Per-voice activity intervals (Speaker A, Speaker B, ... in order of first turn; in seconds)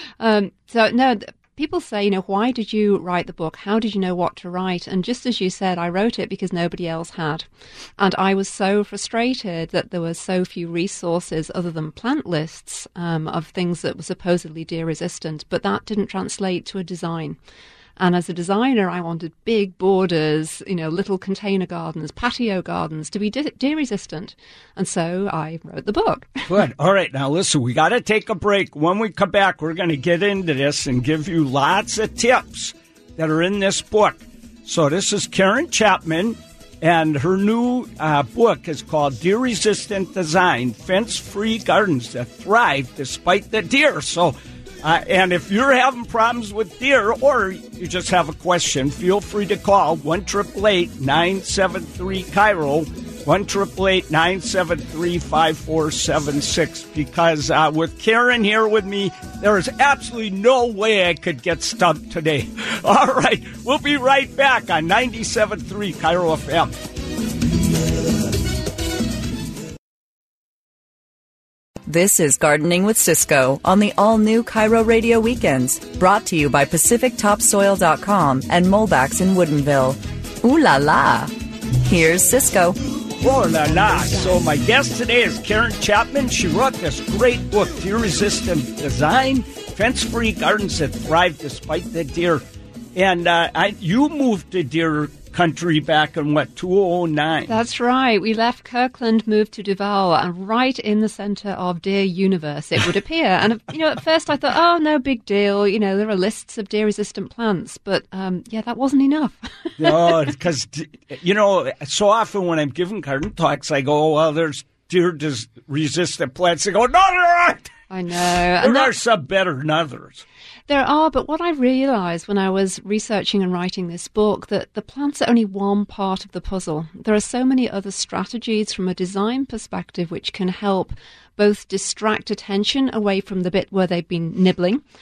Speaker A: 0.2-7.5, 8.0-17.4, 18.0-26.5, 97.5-110.2, 117.9-118.9, 120.7-134.8
Speaker B: 26.5-66.7, 83.2-92.4, 93.0-97.5, 109.8-117.7, 118.6-120.2
Speaker C: 71.8-82.8